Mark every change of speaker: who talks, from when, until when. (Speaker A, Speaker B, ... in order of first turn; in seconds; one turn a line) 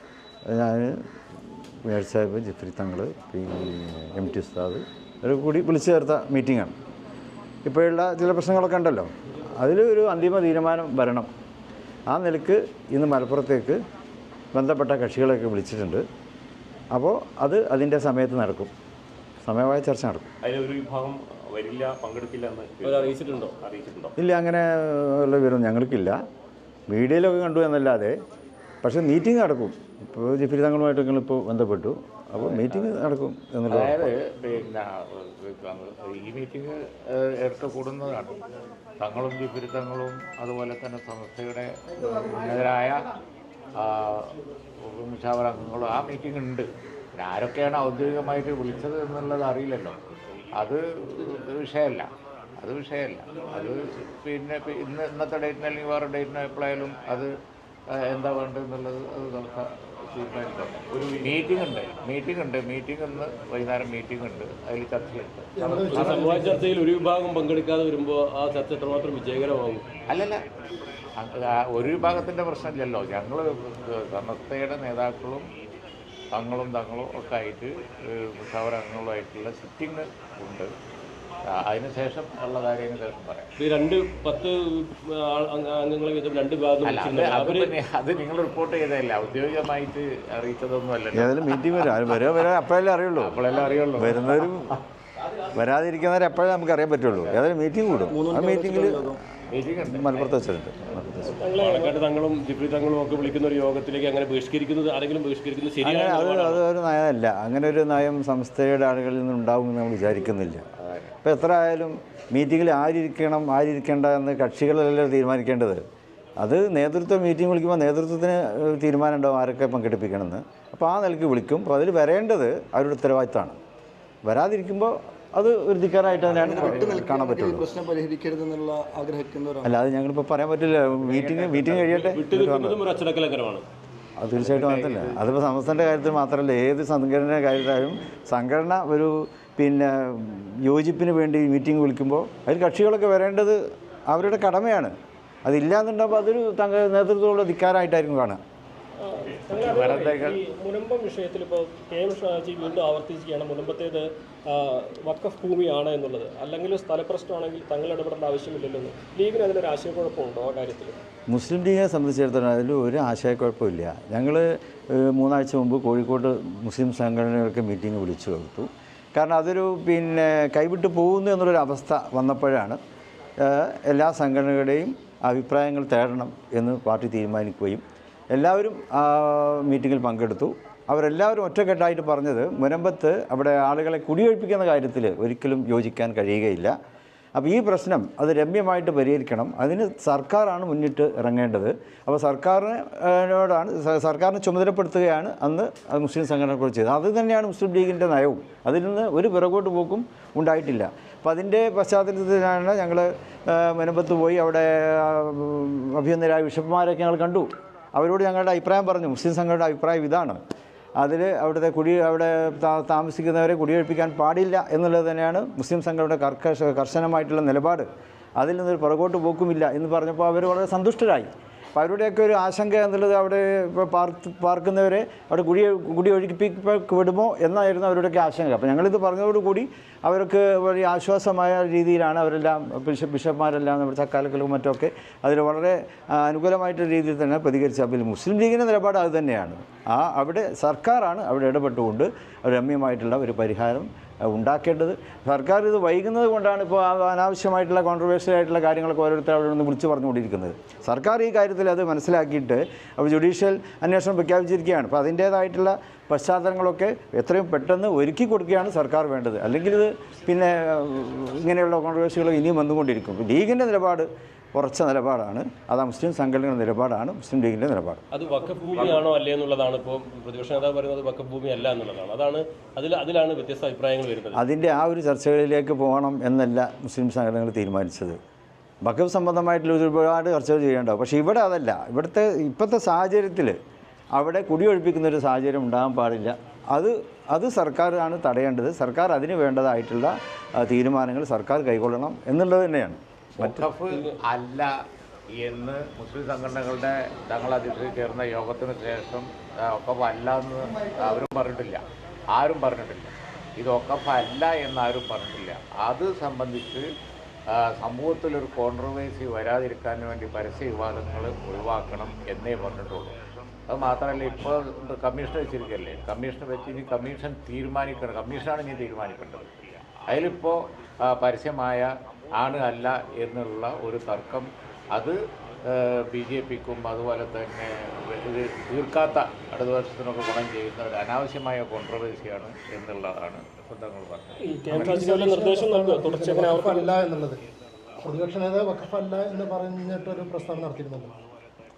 Speaker A: 0.5-1.1
Speaker A: 1.8-6.7
Speaker A: 7.6-11.3
Speaker A: 12.1-13.8
Speaker A: 14.5-16.0
Speaker A: 16.9-18.7
Speaker A: 19.4-20.3
Speaker B: 20.4-24.1
Speaker C: 22.8-23.5
Speaker A: 24.2-26.2
Speaker A: 26.9-28.2
Speaker A: 28.8-34.1
Speaker D: 32.5-32.9
Speaker D: 33.7-38.4
Speaker D: 39.0-43.0
Speaker D: 43.8-44.3
Speaker D: 44.8-50.0
Speaker D: 50.6-52.1
Speaker D: 52.6-57.3
Speaker D: 57.9-66.3
Speaker E: 65.6-66.7
Speaker C: 65.8-69.8
Speaker D: 70.1-70.4
Speaker D: 71.2-75.4
Speaker D: 76.3-80.7
Speaker D: 81.5-83.5
Speaker C: 83.6-87.7
Speaker D: 86.8-92.2
Speaker A: 91.1-93.4
Speaker D: 93.2-94.5
Speaker A: 94.0-94.8
Speaker A: 95.5-99.0
Speaker F: 98.0-99.2
Speaker D: 99.5-100.3
Speaker A: 99.9-101.4
Speaker G: 101.4-102.0
Speaker C: 101.6-106.6
Speaker A: 105.8-110.7
Speaker D: 110.8-111.1
Speaker A: 111.2-115.8
Speaker A: 116.4-123.6
Speaker A: 124.2-127.7
Speaker F: 126.3-129.8
Speaker A: 129.6-132.8
Speaker C: 131.1-133.6
Speaker A: 134.2-144.9
Speaker D: 134.4-135.4
Speaker A: 145.4-148.4
Speaker G: 149.0-160.9
Speaker D: 149.5-150.4
Speaker A: 161.3-172.8
Speaker A: 173.4-177.8
Speaker A: 178.3-186.8
Speaker A: 187.3-210.4
Speaker A: 211.0-217.9
Speaker A: 218.4-268.0
Speaker C: 268.1-274.4
Speaker A: 274.3-278.2
Speaker A: 278.8-283.6
Speaker A: 284.1-293.6
Speaker D: 293.4-294.7
Speaker C: 293.9-294.1
Speaker D: 295.3-301.8
Speaker D: 302.3-306.8
Speaker D: 307.5-313.1
Speaker D: 313.7-319.5
Speaker D: 320.1-335.1
Speaker G: 334.4-336.9
Speaker E: 334.7-337.4
Speaker E: 338.0-341.1